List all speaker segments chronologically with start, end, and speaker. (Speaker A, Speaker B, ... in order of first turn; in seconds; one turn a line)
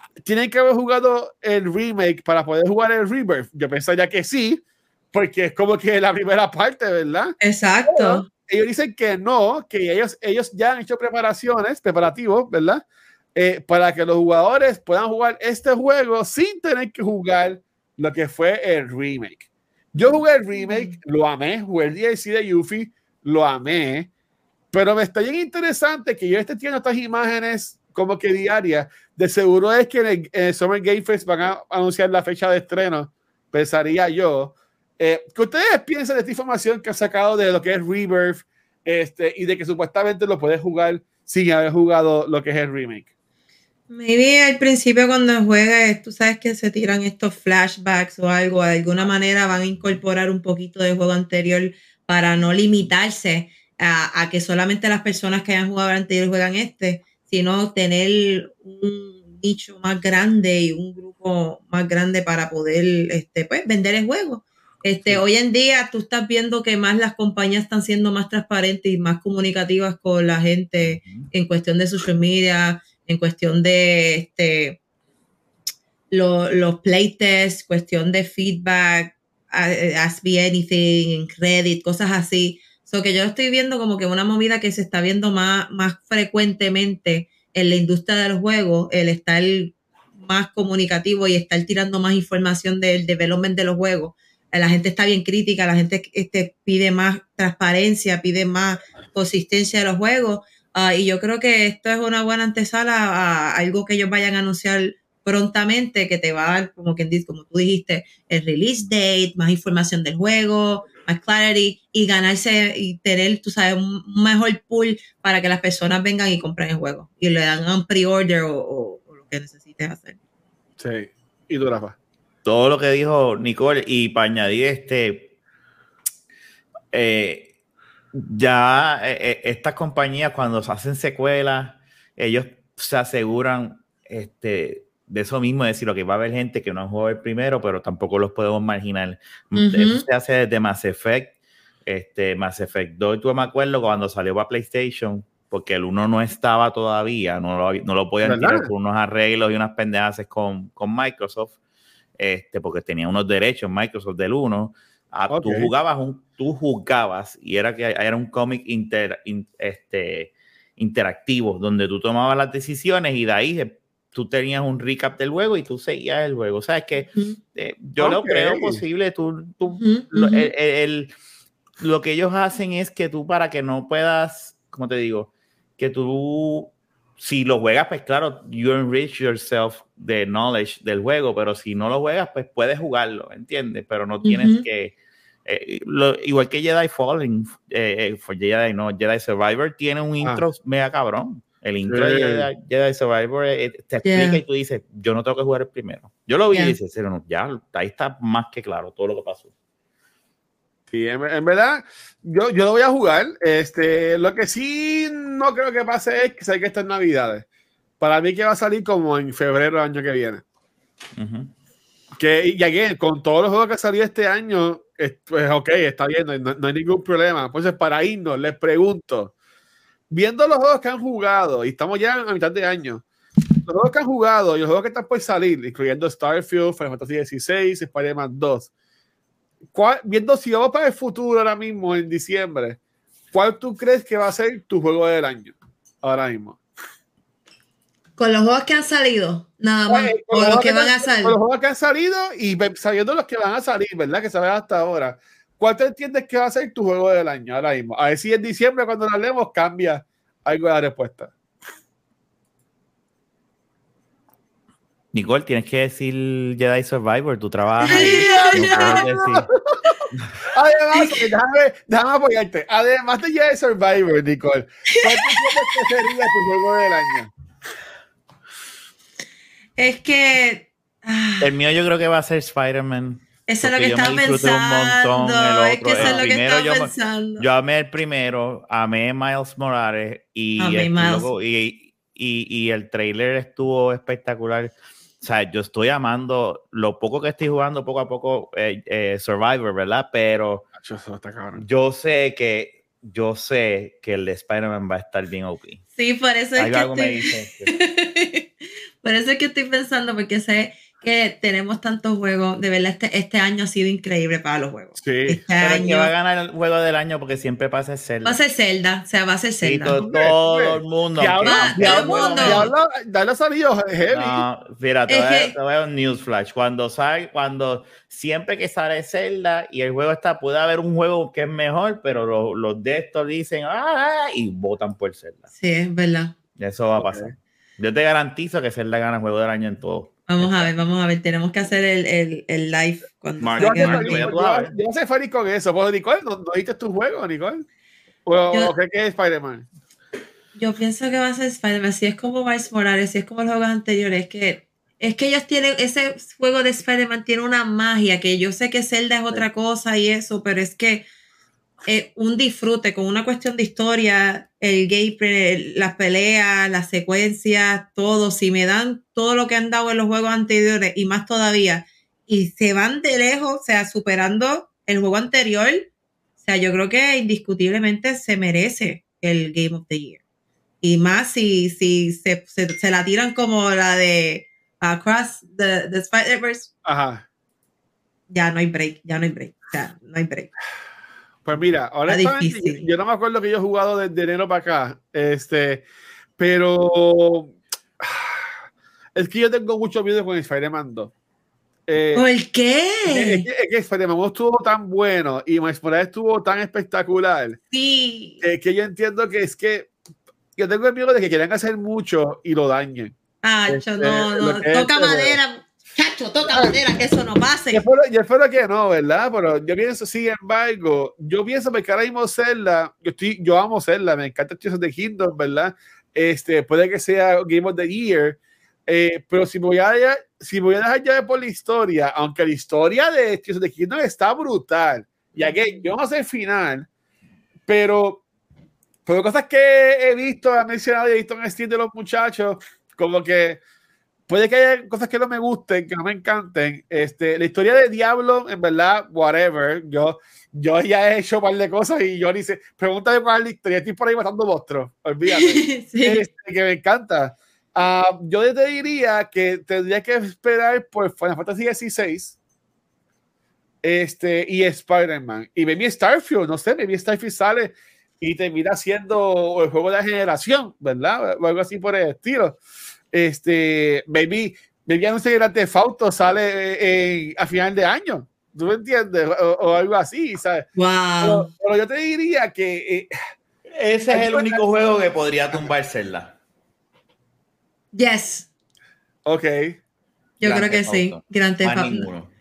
Speaker A: 0.2-4.6
Speaker A: 5.1-12.8
Speaker B: 7.4-8.3
Speaker A: 13.3-24.1
Speaker B: 20.6-21.0
Speaker A: 24.7-43.1
Speaker B: 43.9-74.8
Speaker C: 70.8-71.3
Speaker B: 76.1-120.2
Speaker A: 120.8-122.0
Speaker C: 122.5-125.3
Speaker C: 126.9-127.5
Speaker C: 128.1-151.6
Speaker B: 139.6-140.1
Speaker A: 148.2-148.7
Speaker C: 152.2-171.1
Speaker A: 155.3-155.7
Speaker B: 167.1-167.4
Speaker A: 168.0-168.8
Speaker B: 169.7-170.5
Speaker C: 171.8-184.9
Speaker B: 184.2-184.7
Speaker C: 185.5-199.5
Speaker A: 191.9-192.5
Speaker B: 194.0-194.4
Speaker A: 200.9-207.4
Speaker A: 208.0-210.4
Speaker C: 211.2-211.5
Speaker A: 212.2-219.3
Speaker A: 220.1-223.0
Speaker A: 223.7-228.7
Speaker A: 229.7-232.8
Speaker A: 233.3-236.6
Speaker B: 238.2-241.4
Speaker A: 239.9-251.3
Speaker C: 255.1-259.5
Speaker A: 257.9-267.3
Speaker B: 257.9-259.0
Speaker B: 260.9-261.2
Speaker B: 264.9-265.9
Speaker B: 269.8-271.5
Speaker C: 271.4-290.7
Speaker B: 273.5-277.5
Speaker A: 276.0-276.3
Speaker B: 280.6-281.3
Speaker A: 290.8-291.6
Speaker C: 291.6-295.8
Speaker B: 296.0-298.5
Speaker C: 296.6-297.7
Speaker B: 299.0-306.1
Speaker A: 305.0-305.4
Speaker C: 305.6-308.4
Speaker B: 308.2-310.0
Speaker C: 309.6-312.7
Speaker A: 310.0-314.5
Speaker B: 311.4-312.7
Speaker C: 314.1-325.4
Speaker B: 315.1-315.5
Speaker B: 325.6-326.4
Speaker C: 326.6-330.7
Speaker A: 327.0-327.3
Speaker B: 330.3-334.3
Speaker C: 333.4-334.7
Speaker A: 333.6-337.6
Speaker A: 338.3-339.7
Speaker B: 340.6-351.1
Speaker B: 351.9-370.2
Speaker B: 370.8-376.7
Speaker A: 376.9-377.2
Speaker B: 378.3-380.5
Speaker A: 381.4-385.8
Speaker B: 382.1-382.9
Speaker A: 386.4-388.5
Speaker A: 389.1-391.1
Speaker A: 391.9-392.2
Speaker B: 392.1-393.5
Speaker A: 393.1-397.6
Speaker B: 397.7-398.4
Speaker A: 398.4-399.9
Speaker A: 400.6-403.1
Speaker B: 403.4-407.8
Speaker A: 403.7-405.4
Speaker A: 406.4-406.8
Speaker A: 407.7-426.9
Speaker B: 425.4-425.9
Speaker A: 427.7-428.2
Speaker A: 429.1-433.6
Speaker A: 434.3-452.4
Speaker B: 445.3-446.2
Speaker A: 453.8-462.6
Speaker A: 463.1-470.7
Speaker B: 470.8-471.5
Speaker A: 471.2-473.1
Speaker C: 473.8-476.4
Speaker A: 474.1-474.6
Speaker B: 477.9-478.5
Speaker A: 479.2-479.8
Speaker B: 480.4-482.1
Speaker C: 480.4-482.3